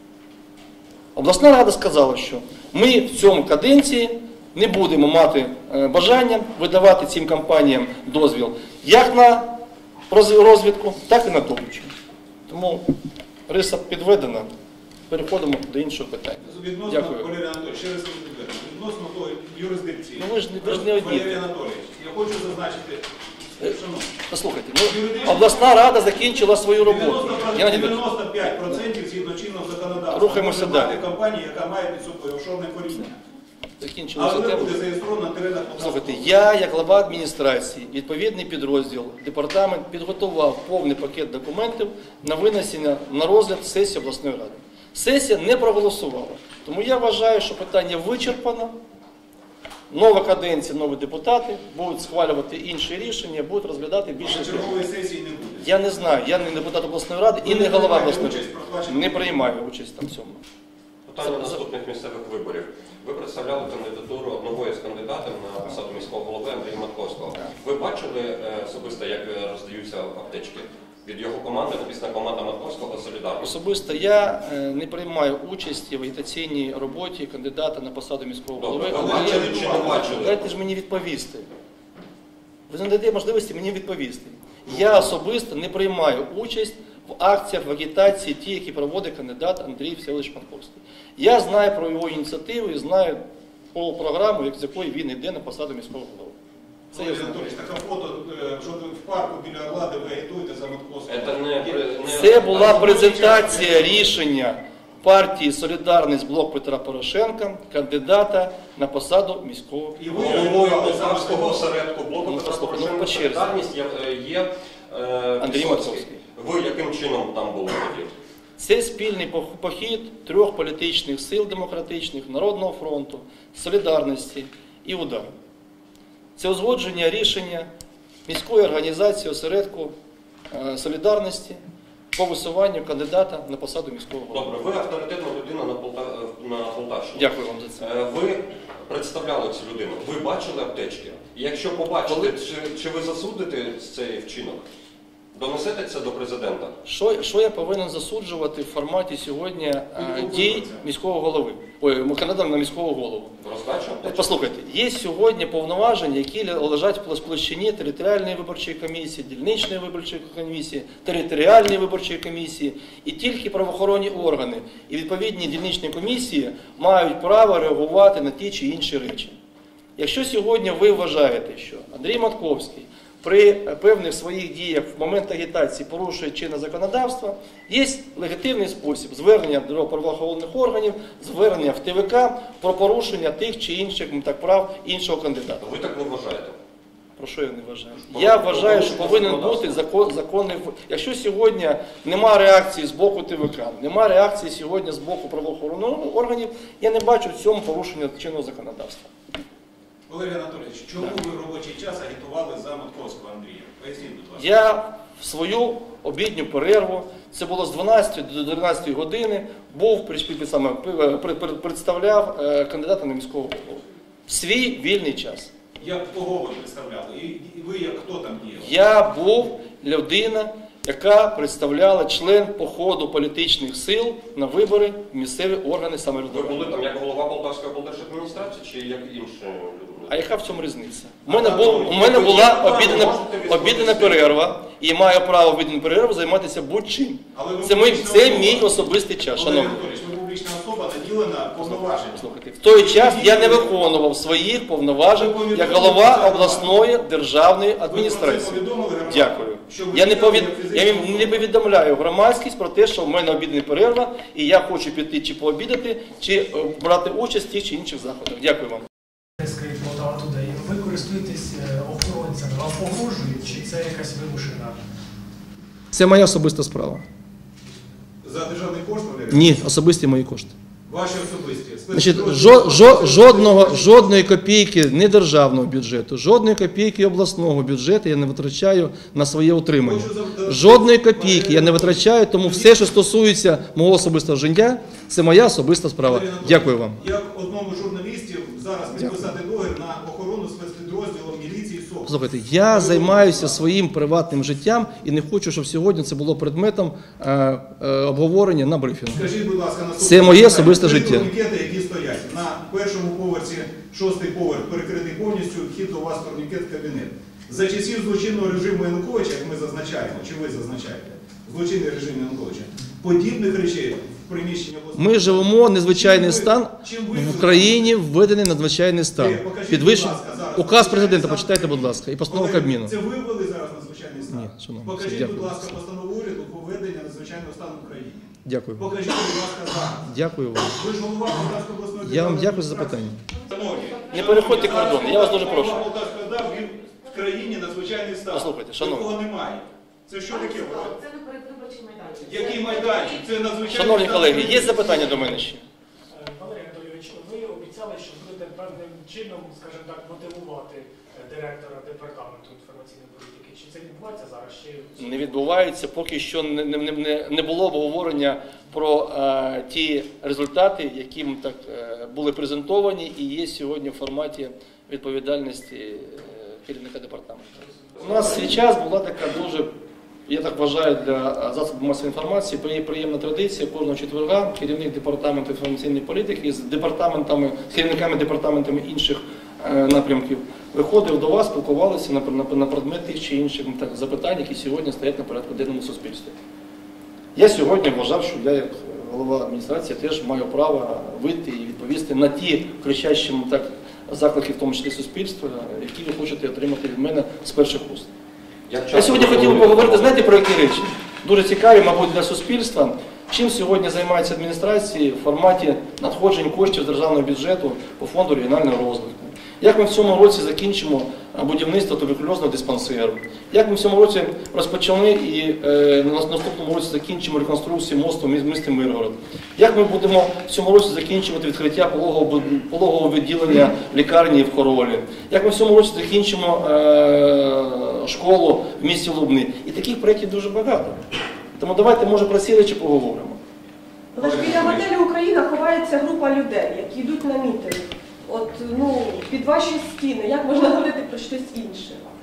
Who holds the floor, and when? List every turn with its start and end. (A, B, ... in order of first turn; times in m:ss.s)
0:01.1-0:09.5 A
0:10.1-0:11.9 A
0:12.5-0:12.8 A
0:13.5-0:14.5 A
0:15.1-0:17.3 A
0:16.4-0:23.1 B
0:20.2-0:21.4 A
0:23.6-0:24.1 B
0:24.3-0:28.0 A
0:24.8-0:25.5 B
0:26.8-0:33.2 B
0:30.1-0:31.0 A
0:33.8-0:34.8 A
0:34.1-0:36.4 B
0:35.8-0:48.7 A
0:49.9-0:54.8 A
0:54.2-0:55.7 B
0:55.6-1:00.4 A
0:57.4-0:59.4 B
1:01.1-1:13.5 C
1:01.2-1:01.6 A
1:13.4-1:21.5 A
1:18.6-1:20.4 C
1:18.9-1:20.1 B
1:22.7-1:33.2 A
1:33.7-1:36.4 A
1:36.9-1:37.5 A
1:36.9-1:44.1 B
1:41.1-1:43.2 C
1:42.1-1:50.0 A
1:50.0-1:51.7 B
1:50.1-1:58.1 C
1:52.2-1:53.7 A
1:55.4-1:56.2 A
1:58.6-2:05.3 A
2:06.4-2:07.7 A
2:08.3-2:09.9 A
2:10.5-2:11.6 A
2:12.1-2:14.7 A
2:14.3-2:17.3 C
2:17.1-2:17.8 A
2:17.8-2:24.6 C
2:22.0-2:22.3 A
2:25.3-2:26.8 C
2:26.8-2:33.4 A
2:30.0-2:30.8 B
2:33.4-2:34.3 C
2:34.0-2:49.3 A
2:50.0-3:05.6 A
3:05.6-3:06.6 C
3:07.2-3:19.1 A
3:08.1-3:09.8 C
3:20.1-3:24.5 B
3:24.4-3:35.5 A
3:35.8-3:38.7 B
3:38.6-3:46.8 A
3:46.3-3:50.1 C
3:50.1-3:59.8 A
3:51.2-3:54.2 B
3:51.8-3:54.2 C
3:57.3-4:03.7 B
4:01.6-4:18.9 A
4:05.0-4:06.8 B
4:07.8-4:11.4 B
4:19.4-4:24.8 D
4:25.9-4:27.0 A
4:28.2-4:29.6 B
4:29.3-4:30.5 A
4:30.9-4:34.2 B
4:31.9-4:47.0 A
4:39.8-4:42.9 B
4:46.0-4:53.6 B
4:48.9-4:49.3 A
4:52.0-4:59.2 A
4:59.1-5:18.0 B
5:00.0-5:01.3 A
5:14.9-5:22.9 A
5:19.2-5:30.1 B
5:24.3-5:25.8 A
5:28.4-5:28.9 A
5:30.0-5:30.8 A
5:30.7-5:41.0 B
5:32.0-5:33.2 A
5:34.1-5:35.8 A
5:38.3-5:39.1 A
5:40.3-5:43.0 E
5:42.2-5:45.3 B
5:43.7-5:45.6 A
5:46.1-5:55.3 D
5:55.0-6:07.5 A
6:08.0-6:09.7 A
6:10.3-6:26.3 A
6:27.3-6:38.1 A
6:38.7-6:40.1 C
6:38.9-7:11.0 A
7:11.6-7:13.4 A
7:14.1-7:22.1 F
7:14.2-7:14.8 B